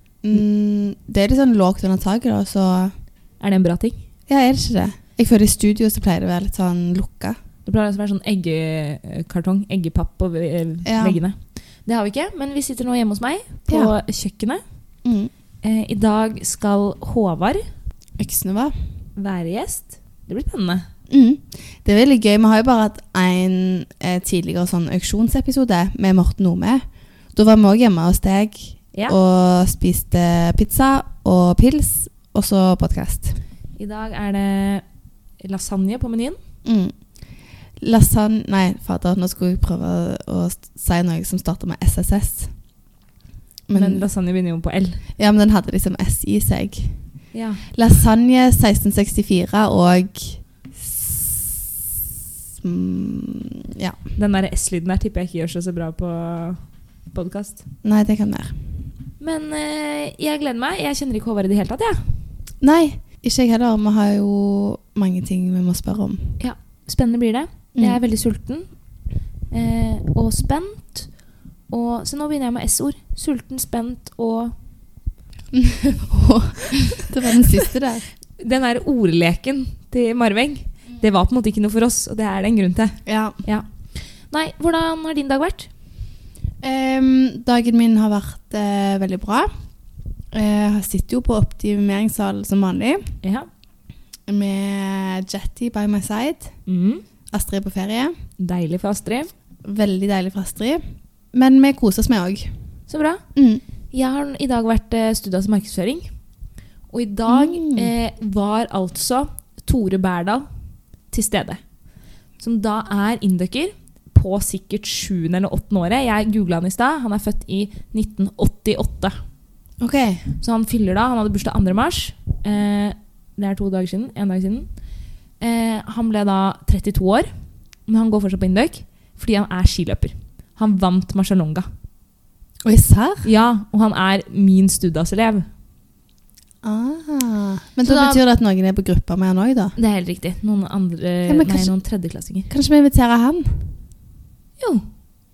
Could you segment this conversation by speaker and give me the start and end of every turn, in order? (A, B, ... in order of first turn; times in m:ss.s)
0:00.2-0:02.9 A
0:03.4-0:04.0 B
0:04.3-0:07.4 A
0:07.6-0:14.6 B
0:10.8-0:11.2 A
0:13.7-0:13.9 A
0:15.0-0:15.3 A
0:15.6-0:17.6 B
0:18.2-0:18.8 A
0:19.2-0:20.9 B
0:21.1-0:33.4 A
0:33.8-0:34.8 B
0:35.4-0:36.4 B
0:36.6-0:37.0 A
0:37.8-0:42.5 A
0:43.7-0:44.0 A
0:43.7-0:45.0 B
0:45.2-0:47.0 A
0:47.3-0:47.6 B
0:47.7-0:51.6 A
0:52.6-0:54.0 A
0:54.2-0:57.6 B
0:57.8-0:58.5 A
0:59.2-1:02.0 B
1:02.6-1:06.4 A
1:06.4-1:08.7 B
1:07.8-1:08.0 A
1:09.5-1:11.1 B
1:11.7-1:14.5 B
1:15.5-1:18.1 A
1:18.4-1:25.7 B
1:23.1-1:23.4 A
1:26.6-1:29.5 A
1:30.3-1:33.1 A
1:33.2-1:33.5 B
1:34.3-1:36.5 A
1:36.7-1:37.0 B
1:37.3-1:38.2 A
1:38.4-1:39.3 B
1:39.6-1:40.8 A
1:41.3-1:42.5 A
1:42.9-1:43.2 B
1:43.4-1:43.6 A
1:43.9-1:46.1 B
1:46.9-1:50.5 B
1:47.3-1:47.9 A
1:51.1-1:51.6 B
1:52.4-1:59.2 B
1:59.8-2:00.3 A
2:00.4-2:04.8 B
2:05.4-2:07.3 B
2:07.9-2:11.7 B
2:12.6-2:13.3 A
2:13.2-2:15.5 B
2:16.6-2:19.8 A
2:17.8-2:18.2 B
2:19.8-2:22.5 B
2:21.3-2:21.7 A
2:22.5-2:23.6 A
2:24.6-2:24.9 B